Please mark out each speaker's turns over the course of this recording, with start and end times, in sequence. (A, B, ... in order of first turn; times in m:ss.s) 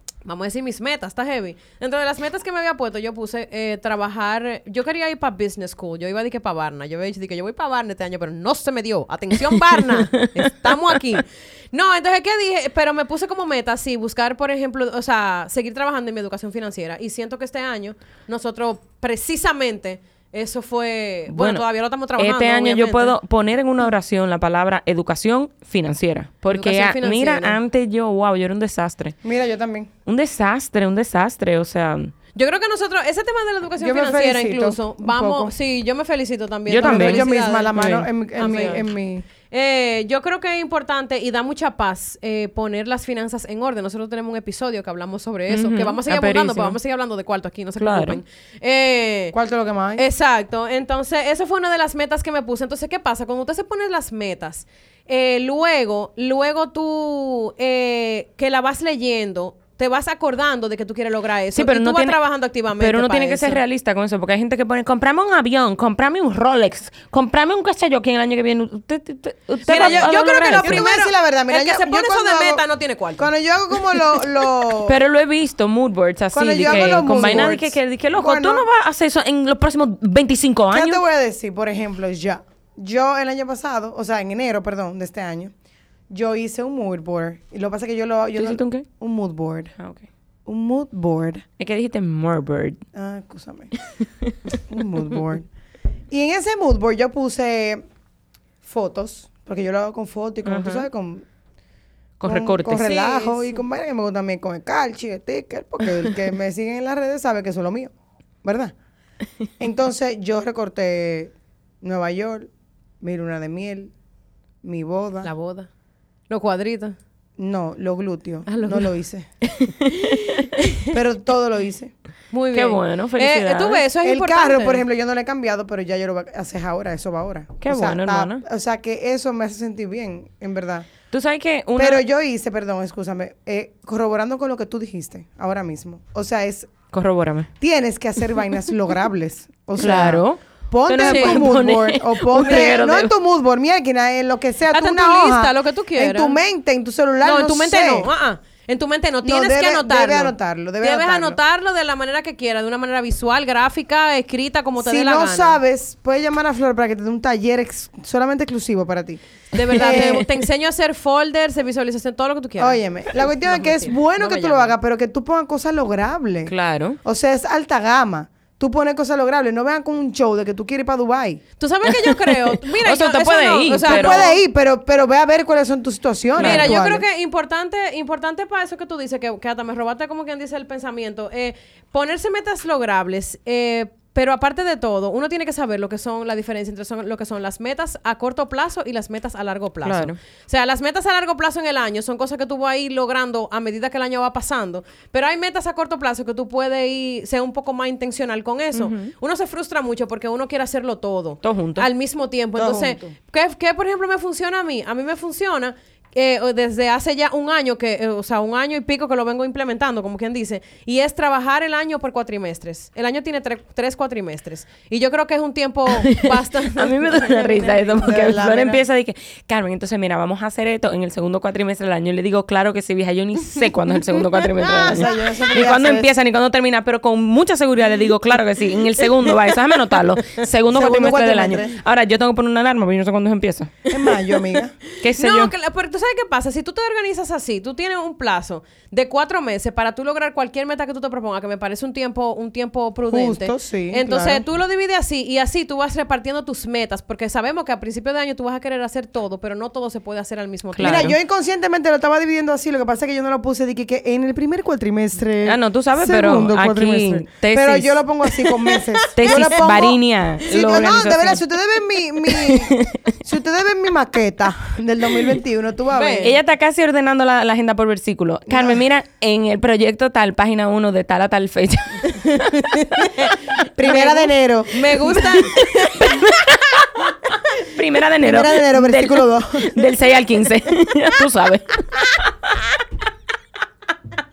0:00.2-0:23.2 A
0:09.6-0:11.2 B
0:21.3-0:21.6 B
0:22.2-0:29.2 B
0:26.5-0:27.6 A
0:29.2-0:29.9 C
0:30.0-0:32.1 B
0:32.3-0:37.8 A
0:33.8-0:35.5 C
0:36.7-0:38.6 B
0:36.8-0:39.2 C
0:38.4-0:38.8 A
0:39.5-0:49.3 A
0:45.5-0:46.8 B
0:47.8-0:48.2 B
0:49.3-0:50.0 C
0:50.0-1:03.6 A
1:01.5-1:02.2 B
1:02.8-1:10.8 B
1:09.7-1:13.3 A
1:09.7-1:12.6 C
1:13.2-1:15.0 C
1:14.8-1:21.0 B
1:16.3-1:18.6 C
1:16.6-1:17.6 A
1:20.7-1:25.5 C
1:26.1-1:29.7 C
1:28.4-1:28.9 B
1:29.8-1:30.1 B
1:30.4-1:31.4 C
1:31.6-1:32.8 B
1:32.9-1:33.7 C
1:34.0-1:34.6 B
1:34.7-1:35.5 C
1:36.1-1:37.8 C
1:38.6-1:41.2 C
1:40.4-1:40.9 B
1:42.2-1:43.1 B
1:42.2-1:47.9 C
1:42.8-1:43.4 A
1:48.4-1:48.7 C
1:49.6-1:52.5 C
1:53.0-1:53.9 C
1:54.6-1:55.3 C
1:55.2-1:55.7 A
1:56.3-1:57.0 A
1:57.4-1:59.3 C
1:58.5-1:58.9 A
1:59.4-2:00.5 B
2:00.6-2:00.8 A
2:00.9-2:01.9 C
2:02.3-2:04.8 A
2:02.5-2:03.8 B
2:04.0-2:10.9 C
2:07.6-2:08.4 B
2:11.1-2:12.0 B
2:11.8-2:16.7 C
2:16.9-2:17.5 B
2:17.6-2:28.1 C
2:19.8-2:23.1 B
2:21.0-2:21.4 A
2:22.4-2:22.8 A
2:24.7-2:26.4 A
2:27.2-2:35.6 A
2:29.2-2:31.4 C
2:34.8-2:40.3 C
2:39.5-2:44.7 A
2:39.7-2:40.2 B
2:42.6-2:51.4 C
2:46.5-2:47.0 B
2:51.6-2:54.4 A
2:51.9-2:54.3 B
2:53.9-2:57.0 C
2:56.4-2:56.8 B
2:56.4-3:38.2 A
3:09.8-3:10.2 B
3:18.7-3:19.1 B
3:21.4-3:21.9 B
3:22.6-3:23.1 C
3:35.9-3:53.7 B
3:38.0-3:38.8 C
3:44.6-3:46.1 C
3:44.8-3:45.1 A
3:50.7-3:51.8 C
3:53.9-3:54.7 C
3:54.9-4:11.1 A
3:55.0-3:55.5 B
4:03.1-4:04.4 C
4:10.7-4:11.1 B
4:10.8-4:26.3 C
4:15.4-4:18.0 B
4:18.7-4:19.9 A
4:19.2-4:21.4 B
4:22.3-4:23.0 B
4:25.9-4:26.3 A
4:26.2-4:33.1 B
4:28.5-4:28.8 C
4:32.3-4:36.8 A
4:33.8-4:35.2 C
4:35.2-4:36.8 B
4:37.6-4:42.6 B
4:38.2-4:39.7 C